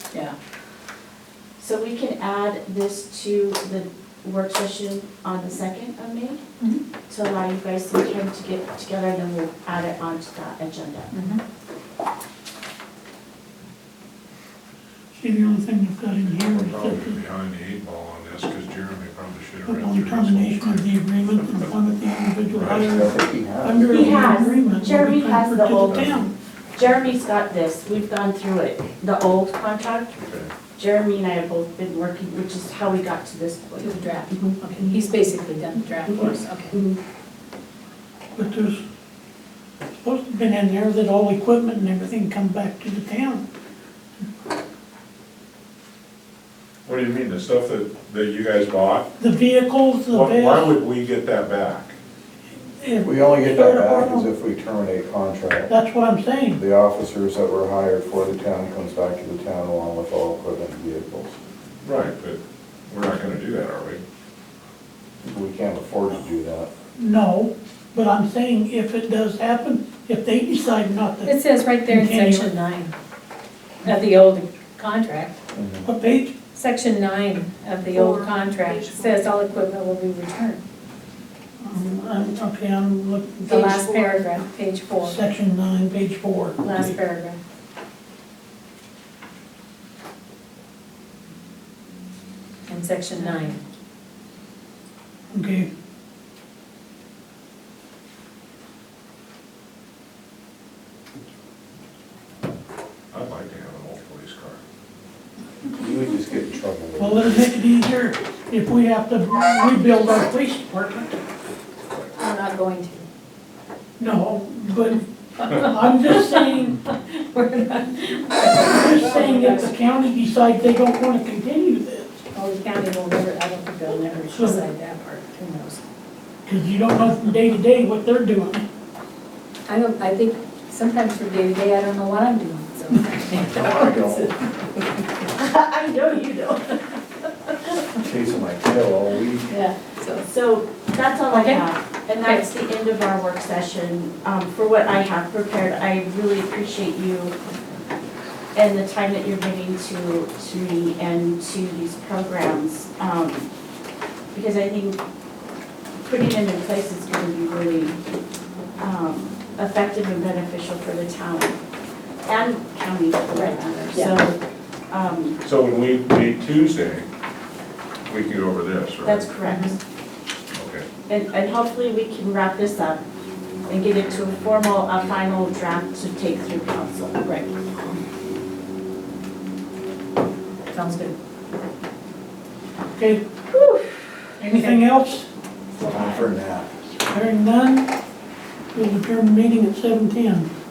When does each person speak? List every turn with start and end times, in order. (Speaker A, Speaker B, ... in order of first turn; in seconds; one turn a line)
Speaker A: 1.6-6.4
Speaker A: 7.1-11.1
Speaker B: 11.1-11.4
Speaker C: 15.1-17.1
Speaker D: 16.3-21.7
Speaker C: 19.7-26.3
Speaker D: 22.5-23.0
Speaker E: 22.7-24.3
Speaker A: 23.8-26.2
Speaker D: 25.9-26.2
Speaker A: 26.8-30.1
Speaker D: 30.2-30.5
Speaker A: 30.8-34.6
Speaker B: 33.8-36.8
Speaker A: 36.7-37.0
Speaker C: 38.4-38.8
Speaker C: 40.0-43.4
Speaker D: 46.9-49.1
Speaker C: 49.2-50.6
Speaker D: 50.1-52.0
Speaker C: 52.5-54.3
Speaker E: 53.0-55.7
Speaker C: 55.7-56.6
Speaker E: 56.5-61.4
Speaker D: 61.8-64.0
Speaker E: 65.2-66.7
Speaker C: 67.0-71.3
Speaker B: 71.2-72.9
Speaker C: 71.9-72.5
Speaker B: 73.8-75.4
Speaker E: 75.5-75.9
Speaker C: 75.8-76.3
Speaker B: 76.5-80.6
Speaker A: 77.9-79.2
Speaker C: 81.6-83.9
Speaker B: 83.4-85.2
Speaker A: 83.9-84.2
Speaker C: 85.0-86.9
Speaker B: 86.6-87.4
Speaker B: 92.7-93.6
Speaker A: 93.2-93.5
Speaker C: 95.3-95.7
Speaker D: 103.1-104.6
Speaker E: 105.8-107.5
Speaker C: 107.0-111.2
Speaker B: 112.2-113.1
Speaker C: 114.0-115.0
Speaker B: 115.5-119.7
Speaker C: 115.6-116.8
Speaker C: 118.7-122.2
Speaker B: 122.3-125.8
Speaker C: 124.3-124.6
Speaker C: 126.5-128.6
Speaker B: 129.7-134.3
Speaker E: 133.4-134.4
Speaker A: 135.3-136.8
Speaker E: 138.0-139.5
Speaker B: 139.5-140.2
Speaker A: 140.2-147.4
Speaker B: 141.3-141.7
Speaker B: 142.2-142.5
Speaker A: 148.6-153.5
Speaker A: 154.3-155.0
Speaker A: 156.0-158.0
Speaker A: 158.8-161.6
Speaker A: 162.2-164.4
Speaker B: 163.3-164.2
Speaker A: 164.9-165.4
Speaker D: 165.4-167.1
Speaker D: 168.1-169.2
Speaker A: 169.0-169.8
Speaker B: 169.4-169.8
Speaker D: 170.5-170.9
Speaker A: 171.1-173.0
Speaker A: 173.7-177.2
Speaker B: 177.2-177.5
Speaker B: 180.7-181.2
Speaker C: 182.9-183.2
Speaker A: 183.5-183.9
Speaker C: 184.4-185.3
Speaker B: 184.5-184.8
Speaker A: 185.8-186.2
Speaker E: 185.8-186.8
Speaker C: 187.1-187.9
Speaker C: 188.7-190.5